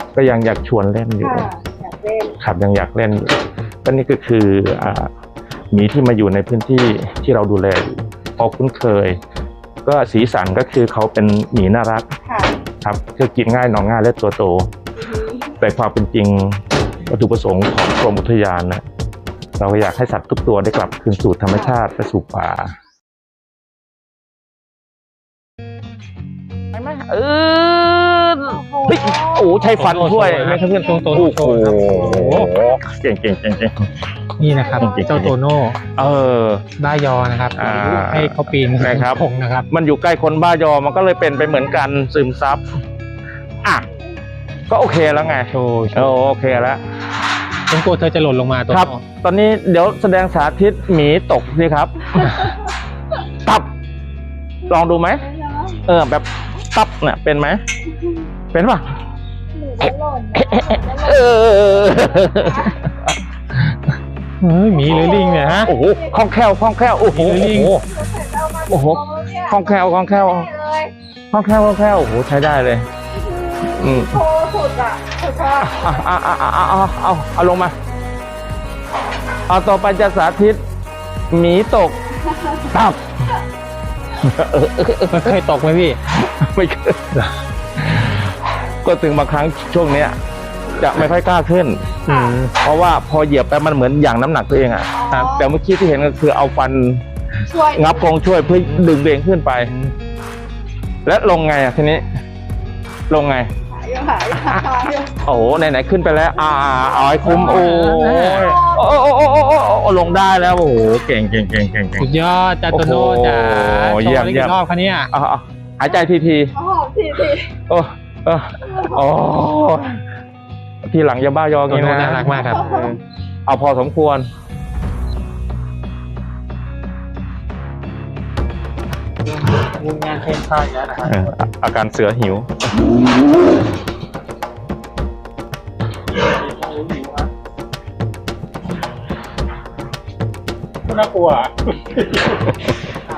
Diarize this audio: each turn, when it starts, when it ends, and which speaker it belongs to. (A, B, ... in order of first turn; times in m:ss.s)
0:00.2-0:01.5 A
0:01.2-0:02.4 B
0:02.4-0:05.1 A
0:05.7-0:09.2 A
0:09.8-0:12.1 A
0:12.2-0:12.6 B
0:12.8-0:14.7 A
0:15.0-0:15.6 B
0:15.6-0:18.8 A
0:19.6-0:22.8 A
0:21.5-0:21.8 B
0:26.7-0:33.9 A
0:28.5-0:29.7 B
0:29.8-0:32.5 C
0:30.8-0:31.2 B
0:34.4-0:35.8 C
0:34.5-0:35.3 B
0:34.8-0:35.3 A
0:35.9-0:36.7 A
0:36.8-0:39.7 C
0:37.6-0:42.7 A
0:44.7-0:46.8 A
0:45.4-0:46.6 C
0:47.7-0:49.0 C
0:48.7-0:52.6 A
0:53.4-0:53.7 A
0:54.7-0:55.2 A
0:54.7-0:55.8 B
0:55.8-0:57.6 A
0:58.5-0:59.0 A
0:59.5-1:02.9 B
1:00.4-1:03.6 A
1:04.4-1:05.7 C
1:04.7-1:06.2 B
1:05.6-1:07.8 A
1:07.1-1:07.8 C
1:07.7-1:10.9 B
1:08.7-1:10.5 A
1:11.3-1:12.9 A
1:13.1-1:16.0 B
1:13.7-1:14.2 A
1:15.6-1:17.7 A
1:19.5-1:20.6 A
1:21.3-1:22.0 A
1:22.7-1:23.1 A
1:24.2-1:25.4 A
1:25.1-1:26.0 C
1:26.1-1:27.1 A
1:27.8-1:28.3 A
1:28.8-1:30.2 A
1:30.8-1:32.0 A
1:32.1-1:32.6 C
1:32.1-1:32.4 B
1:32.6-1:37.0 A
1:34.9-1:35.5 B
1:37.5-1:38.2 B
1:37.7-1:39.7 A
1:39.6-1:39.9 C
1:41.0-1:42.1 A
1:43.1-1:43.5 A
1:43.7-1:45.2 B
1:45.2-1:52.1 A
1:47.2-1:48.5 C
1:48.3-1:48.8 B
1:52.0-1:55.1 C
1:52.7-1:54.6 A
1:55.1-1:56.5 A
1:56.5-1:57.5 B
1:57.7-2:00.0 A
2:00.8-2:04.3 A
2:01.7-2:02.8 C
2:02.5-2:02.9 B
2:09.3-2:11.3 C
2:11.1-2:12.7 A
2:16.3-2:17.3 C
2:20.9-2:22.6 C